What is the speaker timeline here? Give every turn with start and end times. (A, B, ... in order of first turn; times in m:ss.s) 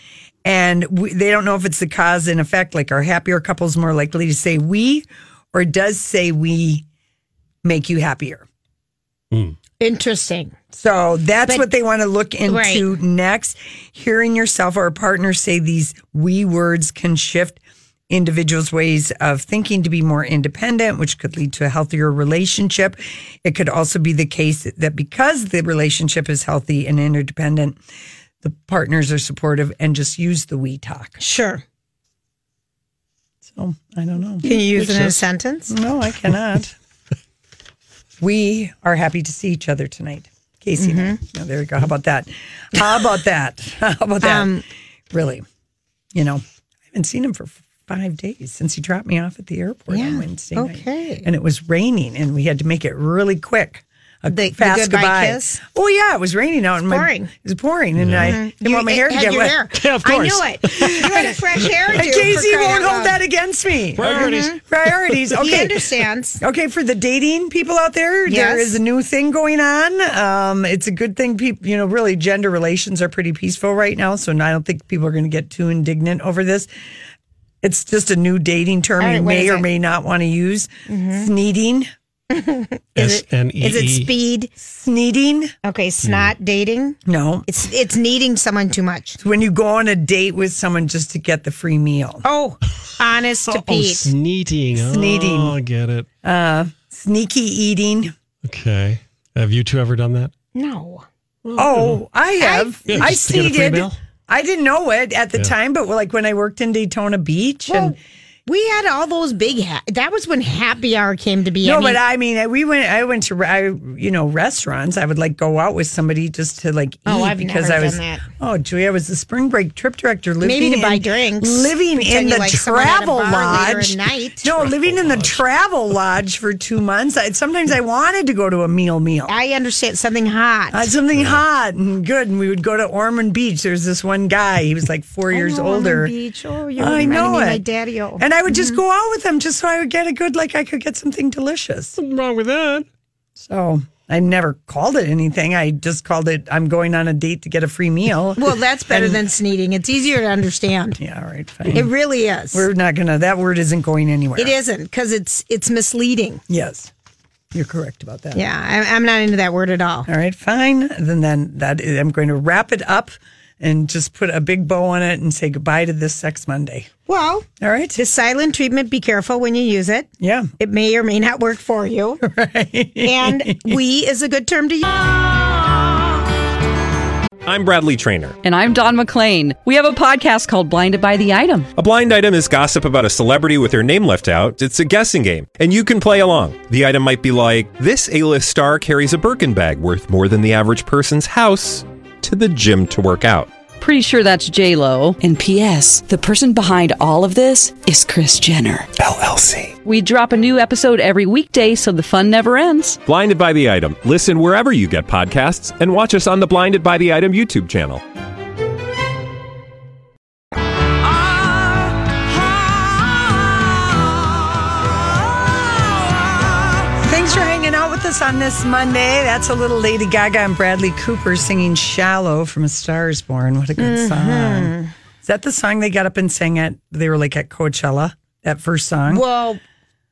0:00.4-0:06.8 A
0:07.6-0:08.5 A
0:09.8-0:10.6 B
0:10.7-0:27.8 A
0:12.5-0:12.9 B
0:28.4-0:31.2 A
0:31.2-0:31.6 B
0:33.4-0:36.8 A
0:34.4-0:35.8 B
0:38.2-0:44.5 A
0:40.8-0:41.2 B
0:44.2-0:44.6 B
0:45.1-0:45.4 A
0:46.2-0:59.6 A
0:49.9-0:51.3 B
0:54.3-0:55.6 B
0:56.9-0:57.3 B
0:58.0-0:58.4 C
0:58.2-1:03.2 B
0:59.8-1:01.9 C
1:00.9-1:01.4 A
1:01.9-1:05.8 A
1:04.0-1:05.2 C
1:04.0-1:04.6 B
1:05.3-1:06.4 B
1:06.4-1:16.7 A
1:08.3-1:08.8 B
1:17.6-1:21.9 A
1:19.0-1:19.7 B
1:20.9-1:21.3 B
1:22.3-1:24.5 B
1:23.0-1:24.1 C
1:24.6-1:25.5 A
1:25.6-1:29.2 B
1:26.0-1:26.3 C
1:27.0-1:27.5 A
1:29.2-1:32.2 A
1:32.2-1:34.1 B
1:33.5-1:36.1 C
1:34.7-1:35.6 A
1:36.2-1:38.1 A
1:38.4-1:40.3 C
1:40.6-1:41.1 B
1:41.4-1:42.0 C
1:41.6-1:48.0 A
1:42.4-1:43.1 B
1:42.9-1:44.0 C
1:47.7-1:52.0 B
1:51.6-2:09.3 A
1:57.1-1:58.2 B
2:00.4-2:04.6 B
2:04.6-2:05.4 C
2:09.3-2:10.8 B
2:10.7-2:16.1 A
2:11.2-2:11.4 C
2:15.3-2:18.8 B
2:16.8-2:17.6 A
2:18.2-2:22.0 A
2:22.0-2:22.9 C
2:23.4-2:29.2 A
2:28.4-2:31.0 B
2:31.0-2:31.9 A
2:31.7-2:32.7 B
2:32.5-2:34.5 A
2:34.4-2:36.4 B
2:36.5-2:36.9 A
2:37.5-2:38.4 A
2:38.3-2:40.1 B
2:40.1-2:46.9 A
2:47.1-2:52.2 B
2:47.6-2:48.0 A
2:50.2-2:50.5 A
2:52.2-2:53.8 A
2:53.0-2:55.3 B
2:57.4-2:58.4 D
2:58.4-3:01.7 E
3:01.8-3:13.5 D
3:13.8-3:18.9 E
3:19.8-3:23.0 E
3:23.1-3:28.0 D
3:36.8-3:49.2 A
3:43.8-3:44.9 B
3:49.1-3:49.6 B